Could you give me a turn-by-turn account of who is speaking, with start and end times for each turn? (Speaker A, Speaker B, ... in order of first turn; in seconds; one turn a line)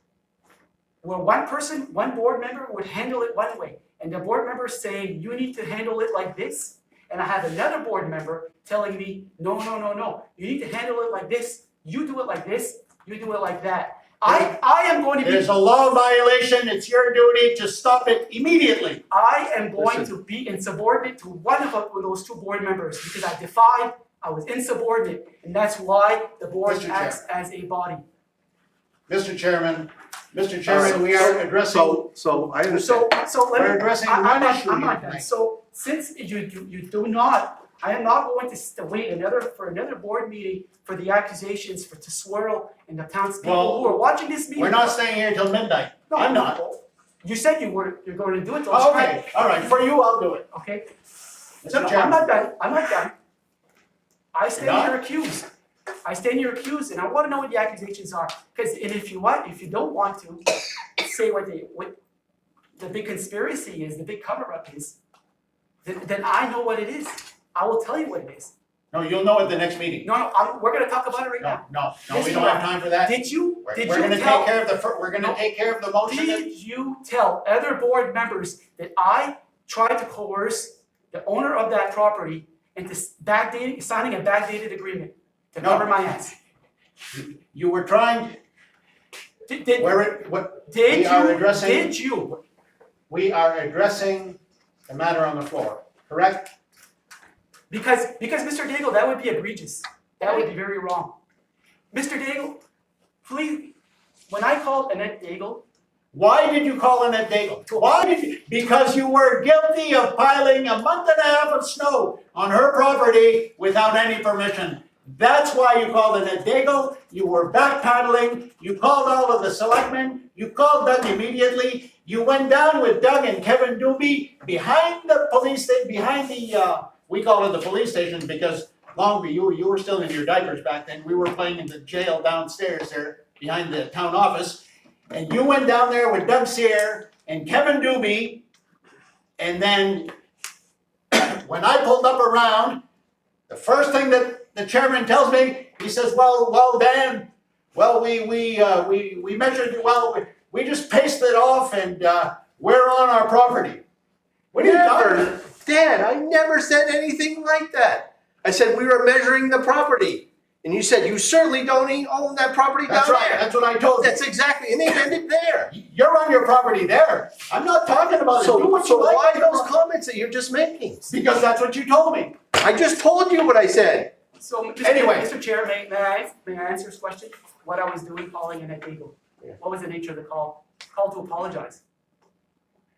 Speaker A: 1.0-15.5
Speaker B: 14.2-14.6
Speaker B: 15.2-19.0
Speaker A: 19.1-28.0
Speaker C: 19.8-20.1
Speaker B: 26.6-27.2
Speaker B: 29.1-32.1
Speaker C: 30.7-33.1
Speaker A: 32.6-45.0
Speaker B: 33.5-35.3
Speaker B: 43.4-44.0
Speaker B: 44.5-46.6
Speaker A: 46.1-49.8
Speaker B: 48.7-50.5
Speaker A: 50.5-50.9
Speaker B: 51.6-52.3
Speaker A: 51.7-53.1
Speaker A: 54.3-55.5
Speaker B: 54.6-55.0
Speaker A: 56.0-60.4
Speaker A: 61.0-62.0
Speaker A: 62.8-65.0
Speaker A: 65.8-68.5
Speaker B: 68.9-70.1
Speaker A: 70.0-74.5
Speaker B: 71.4-76.5
Speaker A: 75.2-75.4
Speaker A: 76.0-86.4
Speaker B: 85.6-85.9
Speaker B: 87.1-88.4
Speaker A: 89.5-92.4
Speaker B: 89.8-92.0
Speaker B: 93.1-96.5
Speaker A: 97.7-101.2
Speaker A: 101.9-102.6
Speaker A: 103.2-103.8
Speaker A: 104.3-105.6
Speaker B: 106.1-138.4
Speaker A: 107.7-108.0
Speaker B: 139.4-140.1
Speaker B: 141.1-142.8
Speaker B: 143.5-153.8
Speaker B: 154.5-155.3
Speaker C: 154.5-165.7
Speaker B: 162.9-164.2
Speaker B: 165.7-169.7
Speaker C: 168.3-171.1
Speaker B: 171.1-172.4
Speaker C: 172.6-174.1
Speaker A: 174.4-181.8
Speaker B: 174.8-175.3